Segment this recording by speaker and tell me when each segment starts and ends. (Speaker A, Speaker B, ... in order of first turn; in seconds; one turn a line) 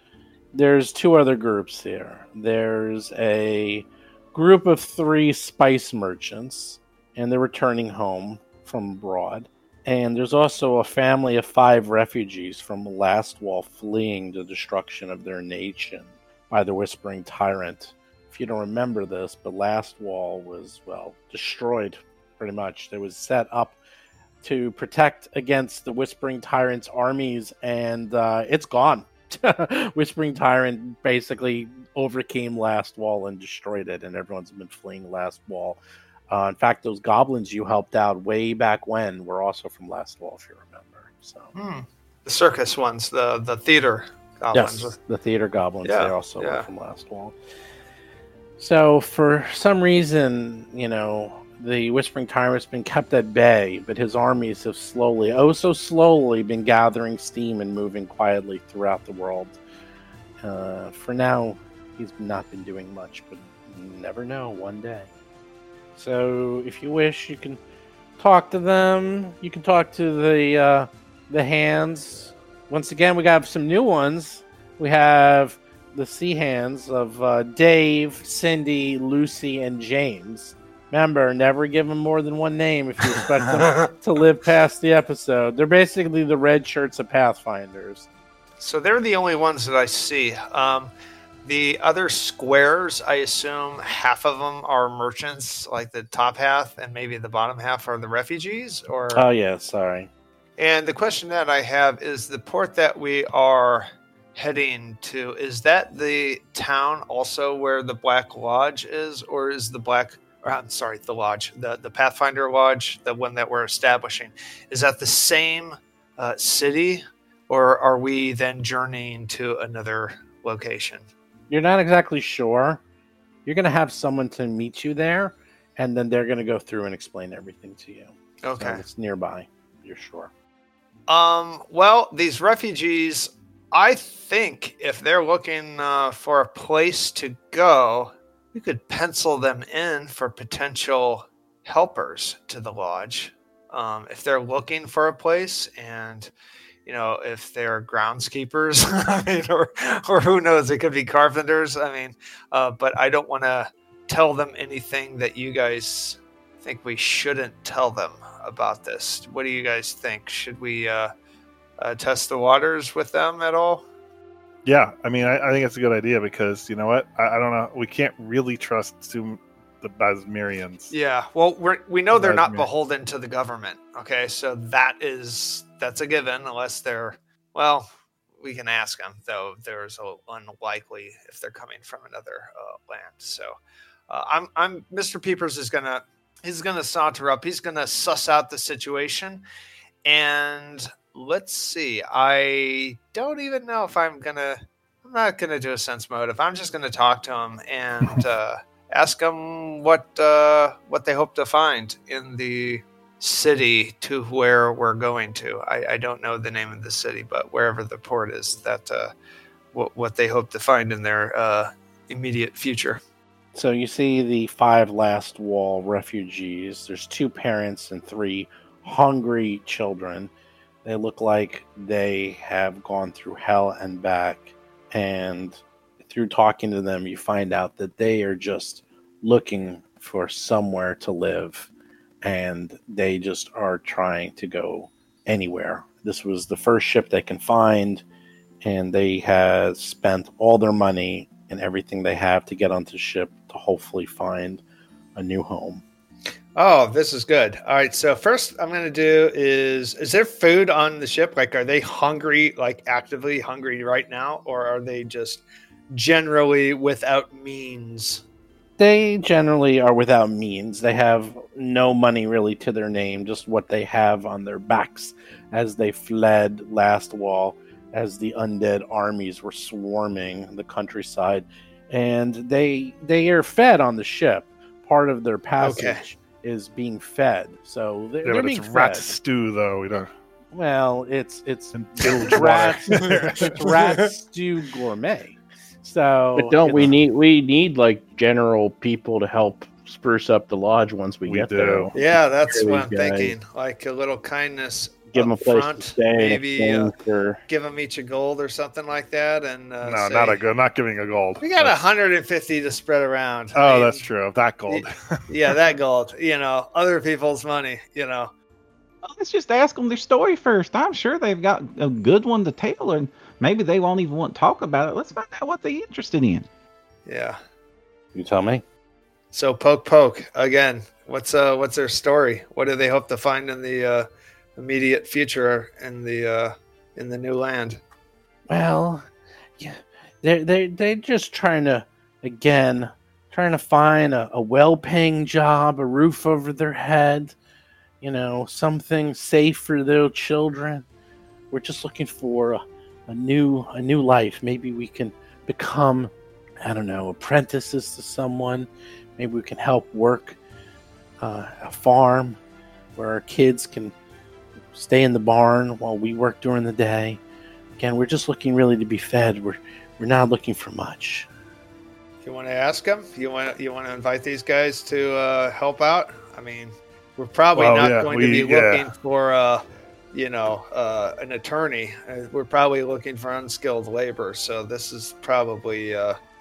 Speaker A: 0.5-23.8
Speaker A: 24.4-41.5
Speaker B: 41.5-44.9
Speaker A: 44.5-47.4
Speaker B: 45.9-46.6
Speaker A: 48.6-59.6
Speaker A: 60.4-65.1
Speaker A: 66.0-67.6
Speaker A: 68.2-88.1
Speaker B: 88.6-90.9
Speaker B: 91.5-99.2
Speaker A: 99.1-100.1
Speaker B: 100.6-121.1
Speaker A: 121.5-122.8
Speaker A: 123.5-130.3
Speaker B: 128.4-128.8
Speaker B: 131.1-146.3
Speaker B: 146.9-161.1
Speaker B: 161.8-163.9
Speaker C: 164.6-170.9
Speaker B: 170.9-183.6
Speaker C: 172.1-172.7
Speaker B: 184.1-189.4
Speaker B: 190.1-209.1
Speaker B: 209.7-213.0
Speaker A: 213.5-220.3
Speaker A: 220.8-231.7
Speaker A: 232.2-238.0
Speaker A: 238.6-244.6
Speaker A: 245.2-245.8
Speaker B: 246.6-258.2
Speaker A: 258.8-279.1
Speaker B: 275.6-276.0
Speaker C: 278.2-280.1
Speaker A: 280.5-286.9
Speaker C: 281.8-283.9
Speaker D: 286.4-293.4
Speaker C: 291.2-291.9
Speaker B: 291.9-296.9
Speaker D: 295.1-297.4
Speaker B: 297.5-300.4
Speaker C: 299.8-301.9
Speaker B: 301.4-304.0
Speaker C: 303.6-305.5
Speaker B: 304.7-308.3
Speaker E: 309.0-316.5
Speaker B: 317.1-317.4
Speaker A: 318.1-318.6
Speaker B: 319.3-327.8
Speaker A: 328.5-329.1
Speaker A: 329.6-337.4
Speaker A: 338.0-340.9
Speaker A: 341.5-346.1
Speaker A: 346.6-350.4
Speaker A: 351.2-352.4
Speaker A: 352.9-353.9
Speaker A: 354.7-357.2
Speaker A: 357.8-361.3
Speaker B: 362.2-376.2
Speaker C: 367.6-368.9